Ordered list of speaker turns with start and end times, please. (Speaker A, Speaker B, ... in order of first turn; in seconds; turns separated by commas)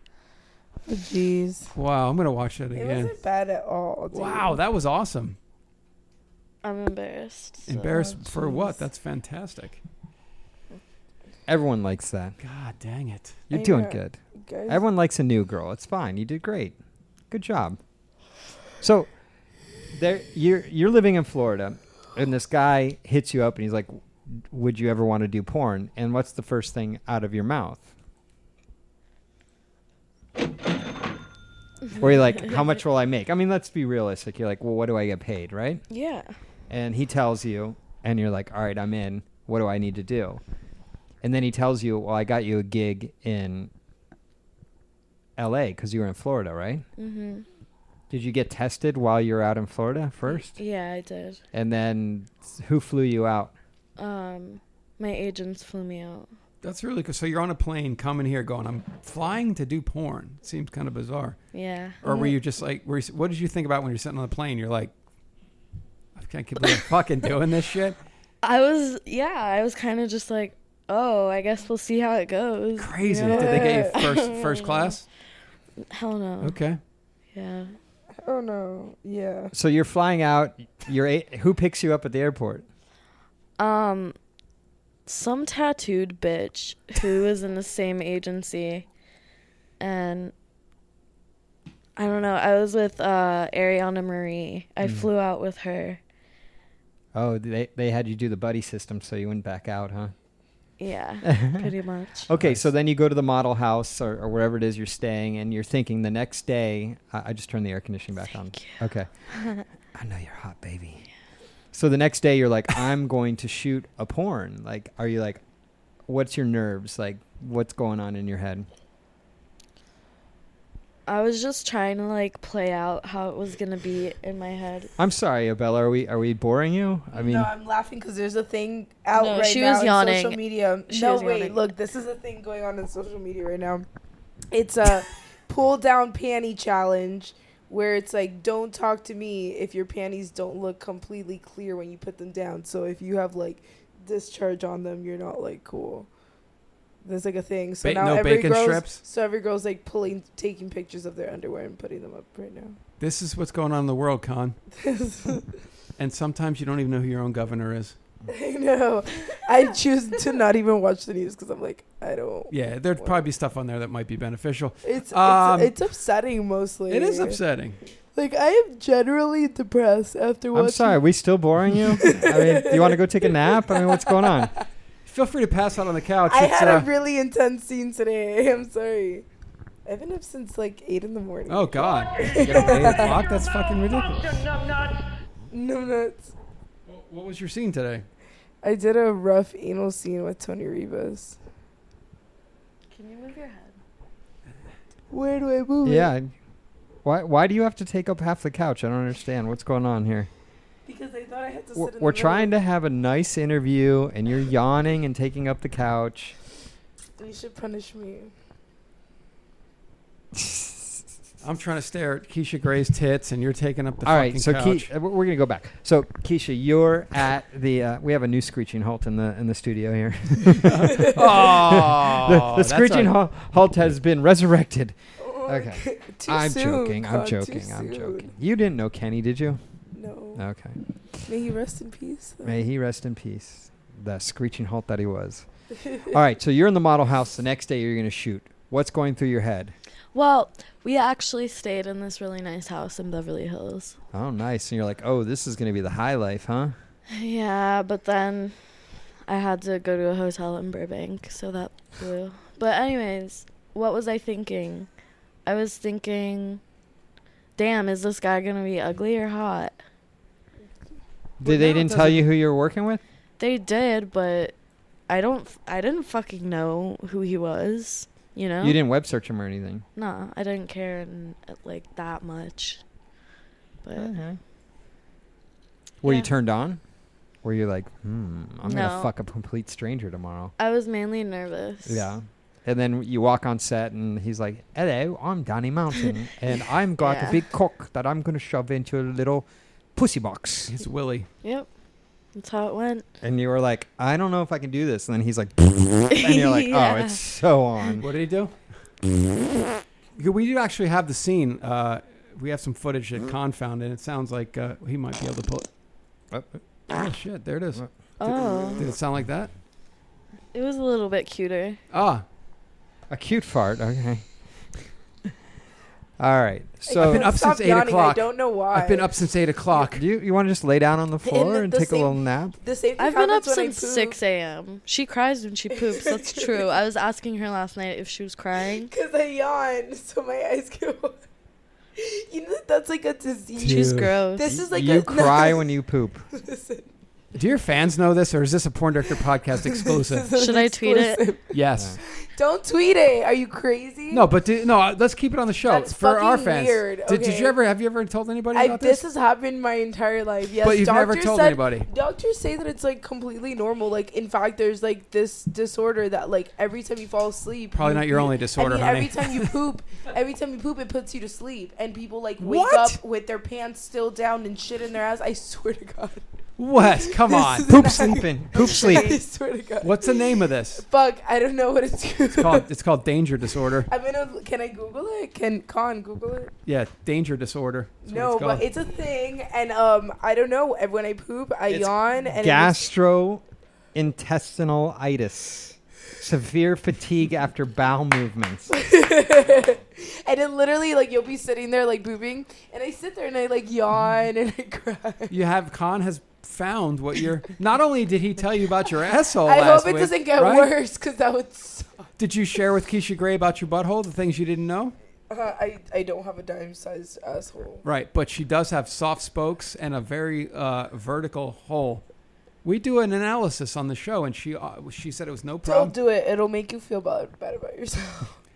Speaker A: 0.9-1.7, Speaker B: 1.8-3.2, Speaker A: 2.8-4.6, Speaker B: 4.1-5.4, Speaker C: 6.6-8.1, Speaker B: 7.7-9.8, Speaker A: 8.1-8.8, Speaker D: 11.5-12.4, Speaker B: 12.4-13.4, Speaker D: 13.5-16.8, Speaker A: 13.5-14.8, Speaker D: 17.3-17.8, Speaker D: 18.8-19.1, Speaker D: 19.9-27.9, Speaker D: 32.0-35.8, Speaker C: 35.9-36.3, Speaker D: 36.7-40.4, Speaker D: 41.2-43.7, Speaker D: 45.4-46.9, Speaker C: 47.0-47.5, Speaker D: 48.1-50.6, Speaker C: 50.2-51.4, Speaker D: 51.5-53.5, Speaker C: 54.0-56.3, Speaker B: 56.6-61.4, Speaker C: 61.5-62.0, Speaker B: 62.0-64.9, Speaker A: 62.0-62.4, Speaker B: 66.2-68.0, Speaker C: 68.4-75.0, Speaker B: 72.8-75.0, Speaker A: 73.0-74.0, Speaker C: 75.8-76.6, Speaker B: 76.4-76.8, Speaker C: 77.3-77.7, Speaker A: 78.2-79.5, Speaker D: 79.5-82.7, Speaker C: 83.6-84.2, Speaker C: 85.1-88.9, Speaker C: 89.8-90.3, Speaker C: 92.0-96.0, Speaker D: 97.1-100.1, Speaker C: 100.8-102.3, Speaker D: 101.2-101.7, Speaker D: 102.3-111.0, Speaker B: 102.3-102.7, Speaker C: 108.5-108.8, Speaker C: 109.3-109.6, Speaker D: 111.7-115.4, Speaker D: 116.1-118.7, Speaker C: 121.1-124.9, Speaker D: 125.0-127.5, Speaker A: 127.1-133.9, Speaker C: 129.1-131.6, Speaker A: 134.5-146.1, Speaker A: 147.0-152.8, Speaker B: 147.8-149.0, Speaker B: 153.0-154.6, Speaker A: 154.8-155.5, Speaker B: 156.0-158.0, Speaker A: 158.3-163.2, Speaker B: 162.5-165.8, Speaker A: 164.8-167.4, Speaker B: 166.9-167.8, Speaker A: 168.1-171.0, Speaker D: 170.5-174.5, Speaker A: 171.9-174.6, Speaker B: 175.1-176.9, Speaker A: 176.3-179.2, Speaker A: 179.8-183.2, Speaker B: 181.5-184.4, Speaker D: 182.4-183.2, Speaker A: 185.5-186.3, Speaker B: 186.9-188.1, Speaker A: 188.6-191.4, Speaker C: 192.9-193.8, Speaker A: 195.1-196.1, Speaker D: 195.8-196.3, Speaker D: 197.0-200.3, Speaker A: 200.9-202.5, Speaker D: 201.8-206.4, Speaker A: 207.2-208.3, Speaker D: 210.3-211.0, Speaker B: 211.4-214.9, Speaker D: 214.0-229.6, Speaker B: 220.6-223.2, Speaker A: 220.9-221.7, Speaker A: 225.2-228.3, Speaker A: 229.9-230.4, Speaker D: 230.3-230.8, Speaker A: 231.3-232.6, Speaker D: 232.4-235.4, Speaker D: 236.1-239.8, Speaker C: 240.1-244.0, Speaker D: 244.1-246.8, Speaker C: 247.1-248.6, Speaker C: 249.3-254.9, Speaker C: 255.5-256.6, Speaker C: 257.6-259.8, Speaker D: 261.4-263.0, Speaker B: 261.4-262.3, Speaker C: 263.4-264.6, Speaker C: 265.1-268.8, Speaker D: 268.6-269.9, Speaker C: 270.0-272.8, Speaker C: 273.8-274.1, Speaker D: 273.9-274.4, Speaker D: 276.0-276.8, Speaker C: 276.0-276.3, Speaker D: 277.4-280.5, Speaker C: 278.6-279.1, Speaker C: 280.6-282.1, Speaker D: 281.9-290.8, Speaker C: 287.0-287.4, Speaker B: 290.7-291.3, Speaker C: 291.4-291.7, Speaker C: 292.4-293.1, Speaker D: 293.2-298.1, Speaker C: 296.1-297.2, Speaker B: 298.0-298.5, Speaker B: 300.2-305.7, Speaker D: 306.3-306.6, Speaker B: 306.9-307.9, Speaker C: 308.2-308.8, Speaker B: 308.8-309.5, Speaker C: 310.5-311.8, Speaker B: 311.9-312.2, Speaker D: 313.1-314.2, Speaker D: 316.2-317.3, Speaker A: 316.9-319.1, Speaker B: 317.0-320.0, Speaker D: 319.9-322.6, Speaker A: 321.2-324.2, Speaker C: 323.0-328.9, Speaker A: 325.8-326.7, Speaker A: 328.9-331.2, Speaker A: 332.0-335.7, Speaker C: 333.6-334.6, Speaker B: 333.6-334.1, Speaker D: 334.5-336.3, Speaker A: 336.3-336.9, Speaker B: 337.4-340.3, Speaker A: 339.7-341.6, Speaker C: 340.3-341.2, Speaker B: 341.5-342.0, Speaker A: 342.2-344.3, Speaker B: 344.1-349.0, Speaker A: 345.6-347.6, Speaker A: 348.5-366.2, Speaker B: 350.6-351.9, Speaker B: 357.7-359.6, Speaker B: 362.4-363.0, Speaker B: 366.6-367.7, Speaker A: 366.8-372.7, Speaker D: 367.7-369.2, Speaker C: 368.6-369.2, Speaker B: 369.8-370.9, Speaker B: 372.4-373.9, Speaker A: 373.9-376.5, Speaker B: 376.7-378.7, Speaker A: 378.1-382.9, Speaker D: 381.7-388.7, Speaker A: 388.7-395.4, Speaker B: 395.3-400.7, Speaker A: 399.4-402.1, Speaker B: 402.2-405.0, Speaker A: 405.3-407.8, Speaker B: 407.8-412.1, Speaker B: 412.6-415.9, Speaker A: 415.6-418.4